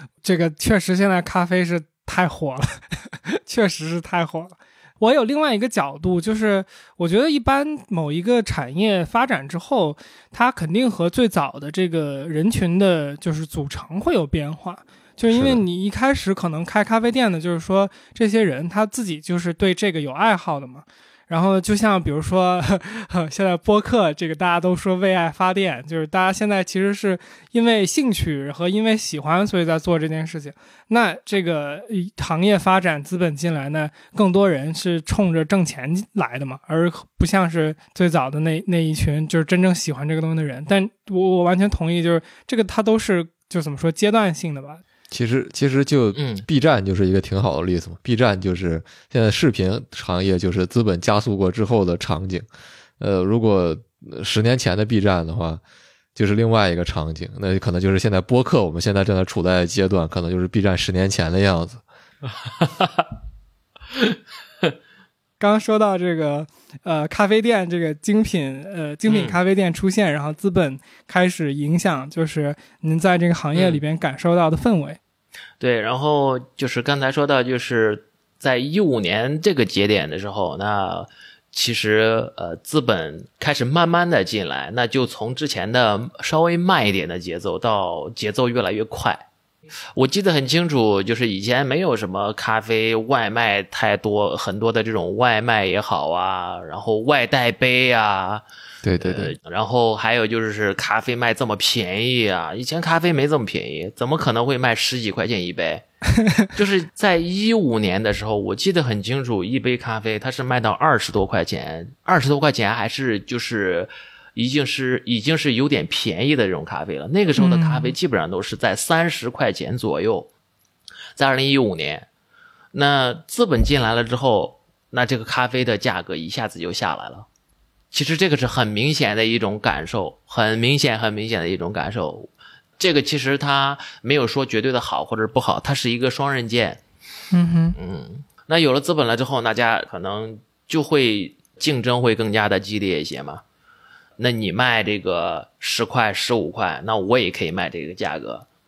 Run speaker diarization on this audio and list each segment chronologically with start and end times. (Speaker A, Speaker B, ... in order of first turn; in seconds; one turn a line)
Speaker A: 0.2-44.8
Speaker B: 15.3-15.6
Speaker B: 45.1-52.5
Speaker C: 46.1-46.5
Speaker B: 53.0-55.6
Speaker B: 56.1-61.8
Speaker C: 62.6-62.9
Speaker A: 65.4-75.0
Speaker C: 69.1-69.4
Speaker C: 73.5-73.8
Speaker C: 75.6-89.2
Speaker C: 90.0-98.4
Speaker B: 98.8-99.4
Speaker C: 99.0-105.8
Speaker C: 106.5-120.3
Speaker A: 117.4-117.9
Speaker C: 121.2-122.1
Speaker C: 122.7-127.3
Speaker C: 127.9-136.8
Speaker A: 137.3-137.8
Speaker C: 137.8-143.4
Speaker C: 144.2-148.5